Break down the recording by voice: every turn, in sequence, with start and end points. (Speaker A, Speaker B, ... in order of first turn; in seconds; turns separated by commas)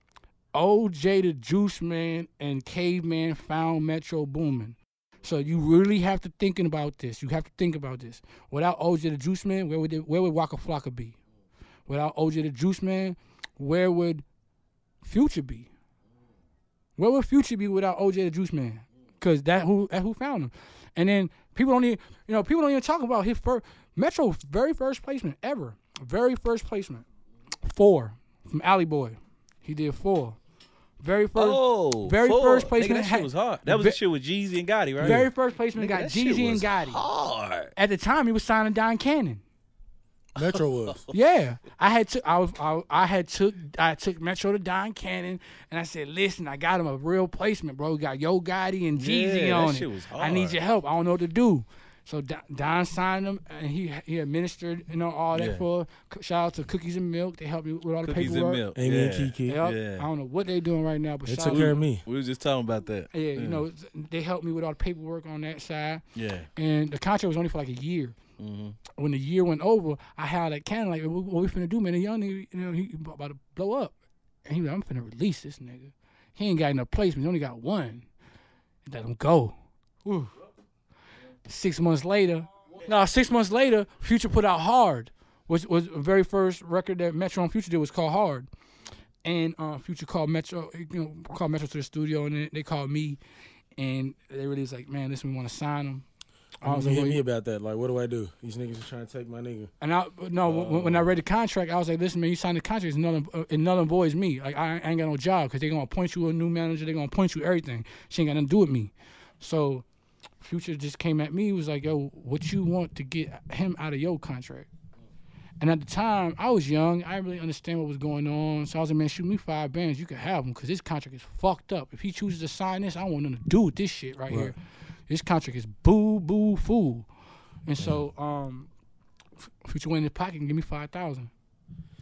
Speaker A: 0.5-11.2, Speaker A: 11.9-14.2, Speaker A: 15.0-15.7, Speaker A: 17.0-27.1, Speaker A: 27.6-30.4, Speaker A: 31.0-34.0, Speaker B: 31.4-37.7, Speaker A: 35.0-37.0, Speaker C: 35.0-35.3, Speaker A: 37.8-39.4, Speaker C: 40.4-41.0, Speaker A: 41.1-58.6, Speaker B: 49.0-50.6, Speaker B: 55.3-55.6, Speaker B: 58.0-60.1, Speaker C: 58.8-59.6, Speaker A: 59.5-61.8, Speaker C: 61.3-62.0, Speaker B: 61.4-63.6, Speaker A: 63.1-66.0, Speaker B: 66.2-66.5, Speaker A: 66.6-68.2, Speaker B: 68.4-68.8, Speaker A: 69.0-78.1, Speaker A: 78.8-80.3, Speaker A: 81.5-88.5, Speaker A: 89.2-93.2, Speaker A: 93.8-96.1, Speaker A: 96.6-97.2, Speaker C: 96.6-99.7, Speaker A: 99.8-109.9, Speaker C: 100.5-101.1, Speaker A: 110.4-114.7, Speaker A: 115.6-124.6, Speaker C: 124.3-124.6, Speaker A: 125.1-127.1, Speaker A: 127.7-128.7, Speaker A: 129.4-131.3